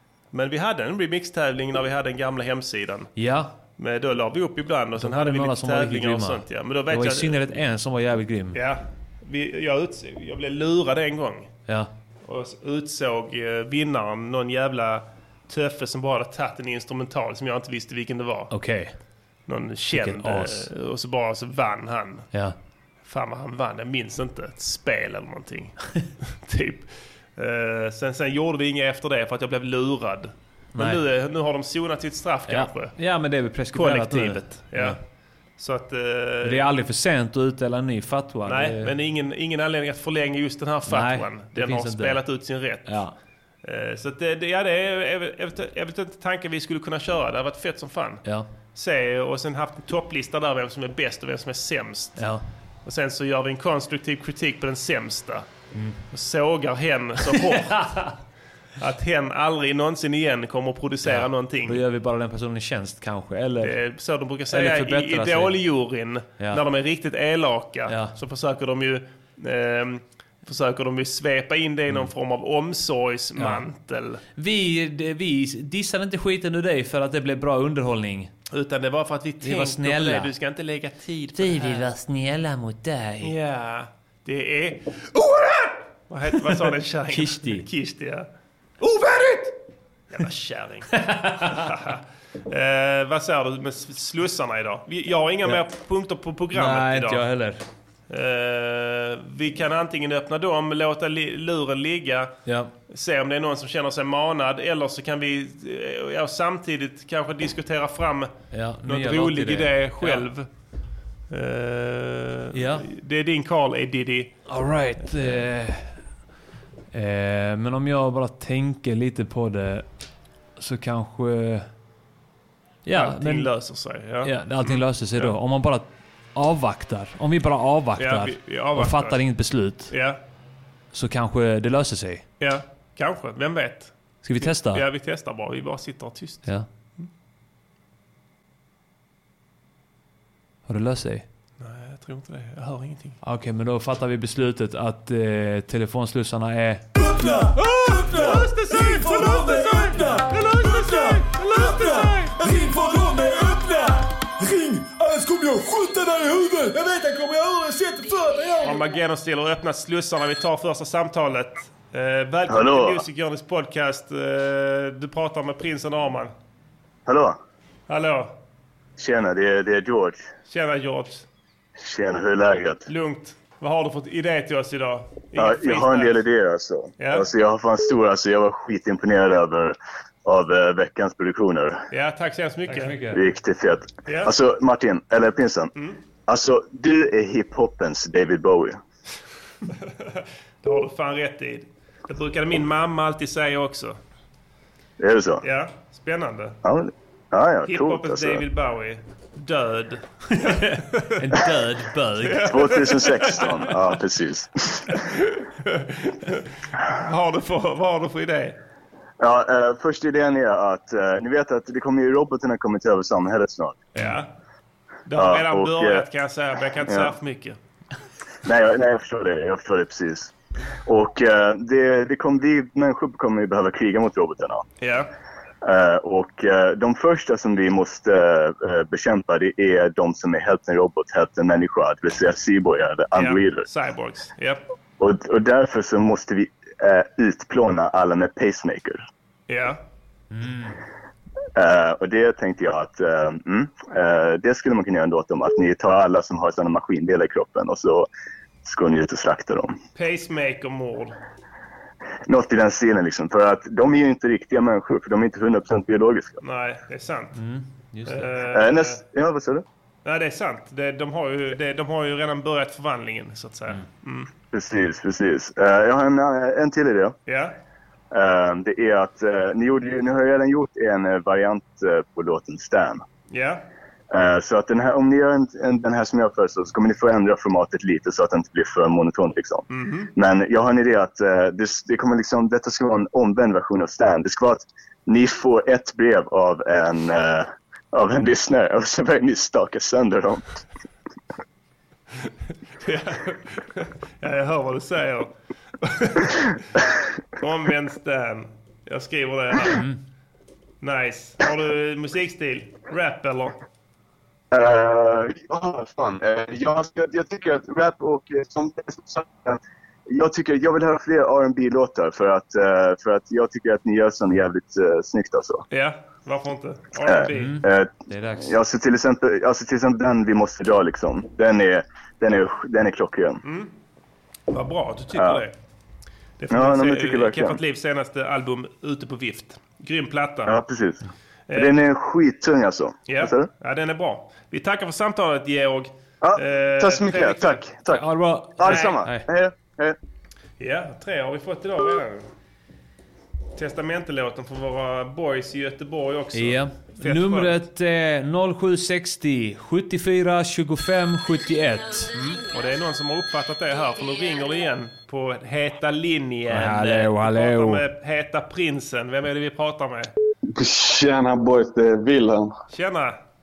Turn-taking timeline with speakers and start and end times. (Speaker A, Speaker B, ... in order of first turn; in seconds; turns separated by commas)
Speaker A: 0.3-3.1, Speaker B: 3.2-3.5, Speaker A: 3.8-7.4, Speaker B: 5.0-8.6, Speaker A: 8.5-11.5, Speaker A: 12.3-18.5, Speaker B: 18.5-18.9, Speaker A: 19.5-22.3, Speaker B: 19.9-20.7, Speaker A: 23.1-25.8, Speaker A: 26.4-33.0, Speaker B: 30.8-31.0, Speaker B: 32.5-35.0, Speaker A: 33.7-35.0, Speaker A: 35.6-36.6, Speaker B: 36.4-38.9, Speaker A: 38.5-43.0, Speaker B: 40.9-42.2, Speaker B: 42.9-43.1, Speaker A: 43.6-48.2, Speaker A: 48.8-52.2, Speaker B: 52.2-52.4, Speaker A: 52.9-55.5, Speaker B: 55.7-56.0, Speaker A: 56.1-57.8, Speaker B: 57.3-58.1, Speaker A: 58.8-61.8, Speaker B: 61.0-63.8, Speaker A: 63.6-74.2, Speaker B: 64.5-65.6, Speaker B: 67.9-68.1, Speaker B: 73.4-73.7, Speaker B: 74.4-78.3, Speaker A: 78.5-81.9, Speaker B: 79.4-80.3, Speaker B: 81.3-83.3, Speaker A: 83.2-84.9, Speaker A: 86.1-88.3, Speaker B: 87.1-87.7, Speaker B: 88.8-89.5, Speaker A: 90.1-97.2, Speaker B: 91.0-91.7, Speaker B: 96.5-97.6, Speaker A: 98.1-102.3, Speaker B: 102.5-102.7, Speaker A: 102.9-108.3, Speaker B: 108.5-110.3, Speaker A: 108.8-110.5, Speaker A: 111.3-114.3, Speaker B: 112.5-112.9, Speaker B: 114.5-116.0, Speaker B: 116.9-119.9, Speaker B: 120.6-121.7, Speaker B: 122.8-123.5, Speaker A: 122.9-125.3, Speaker B: 124.2-129.9, Speaker A: 128.0-129.2, Speaker A: 129.9-130.2, Speaker B: 130.9-132.2, Speaker A: 132.4-137.1, Speaker B: 134.2-134.8, Speaker B: 140.7-141.2, Speaker A: 141.6-143.2, Speaker B: 143.2-146.8, Speaker C: 147.0-158.8, Speaker A: 148.1-152.3, Speaker A: 158.6-166.3, Speaker D: 162.5-163.0, Speaker D: 167.1-167.4, Speaker A: 167.9-168.3, Speaker D: 169.0-170.2, Speaker A: 170.5-171.3, Speaker D: 171.8-172.8, Speaker A: 172.9-176.2, Speaker D: 175.4-181.8, Speaker A: 177.0-177.3, Speaker A: 181.9-182.9, Speaker B: 182.7-183.2, Speaker D: 183.1-185.7, Speaker A: 184.1-184.3, Speaker D: 186.3-188.8, Speaker A: 190.6-194.0, Speaker D: 195.0-195.4, Speaker A: 195.4-196.6, Speaker D: 196.6-198.4, Speaker A: 197.7-201.2, Speaker B: 201.2-202.7, Speaker A: 202.2-203.6, Speaker D: 202.5-204.9, Speaker A: 205.1-208.6, Speaker D: 209.2-213.9, Speaker A: 214.0-214.3, Speaker A: 215.1-217.6, Speaker D: 215.1-216.1, Speaker D: 216.9-217.1, Speaker D: 218.4-220.3, Speaker D: 220.9-224.7, Speaker A: 224.8-225.1, Speaker D: 225.6-233.7, Speaker A: 233.2-234.6, Speaker D: 235.0-239.0, Speaker A: 239.5-239.8, Speaker B: 240.3-240.8, Speaker D: 241.6-248.1, Speaker D: 248.6-249.8, Speaker A: 250.0-251.2, Speaker D: 252.3-256.4, Speaker A: 256.4-257.4, Speaker B: 257.4-258.3, Speaker A: 258.1-259.0, Speaker D: 258.5-259.6, Speaker A: 260.1-264.3, Speaker D: 264.5-267.1, Speaker A: 267.3-267.5, Speaker D: 268.1-273.0, Speaker A: 273.3-273.6, Speaker D: 274.1-290.5, Speaker A: 279.7-280.1, Speaker A: 292.8-296.4, Speaker A: 297.4-299.8, Speaker B: 299.6-300.0, Speaker A: 300.8-303.6, Speaker D: 304.5-315.6, Speaker A: 315.7-317.6, Speaker D: 317.1-323.4, Speaker B: 317.3-318.5, Speaker A: 323.4-323.7, Speaker A: 324.5-325.5, Speaker D: 325.1-325.4, Speaker A: 326.4-330.6, Speaker D: 326.5-327.6, Speaker D: 330.4-331.0, Speaker A: 331.5-331.8, Speaker D: 331.5-333.5, Speaker A: 333.1-337.6, Speaker D: 336.2-338.0, Speaker B: 337.9-339.3, Speaker D: 338.6-340.0, Speaker A: 338.6-339.0, Speaker A: 340.6-342.3, Speaker A: 343.6-347.6, Speaker B: 346.3-352.1, Speaker A: 352.1-360.1, Speaker B: 356.5-357.8, Speaker E: 360.5-362.5, Speaker A: 362.7-363.2